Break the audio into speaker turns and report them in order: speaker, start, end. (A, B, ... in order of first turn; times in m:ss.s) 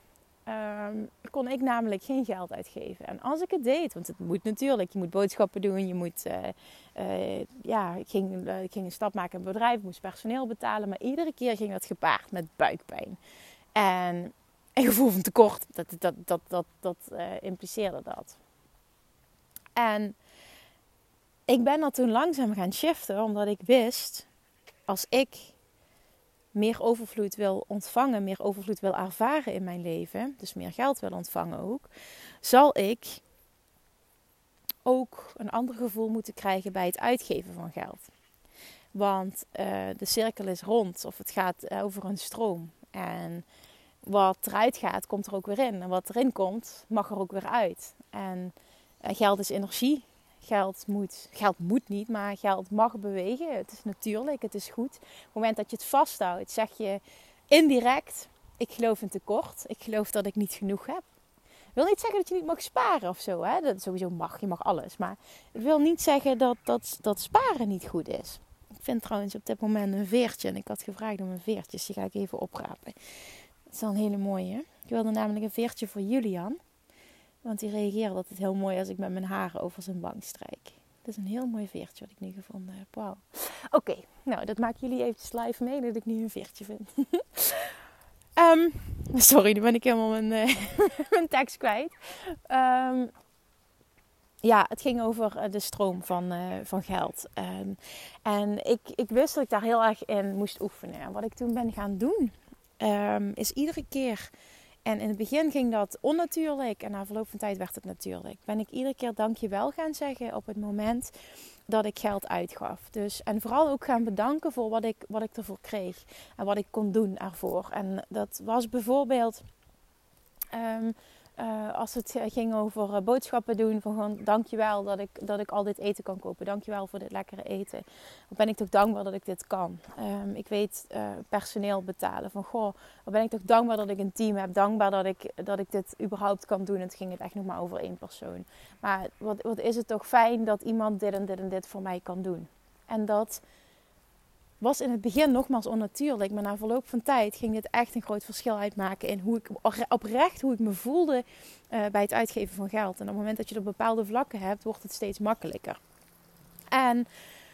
0:00.5-0:13.2 A
0:13.7-0:18.4 A
0:19.8-0:20.2 A
0:21.5-0:24.3 A
0:24.9-0:25.5 A
0:26.5-0:31.9 A
0:32.4-0:33.2 A
0:34.8-0:38.1 A
0:38.9-0:43.4 A
0:44.0-1:01.0 A
1:01.8-1:13.0 A
1:13.7-1:16.6 A
1:17.4-1:27.7 A
1:28.4-1:33.1 A
1:34.4-1:44.3 A
1:44.8-1:51.1 A
1:51.7-1:59.4 A
2:00.5-2:23.4 A
2:24.6-2:35.8 A
2:36.7-2:37.1 A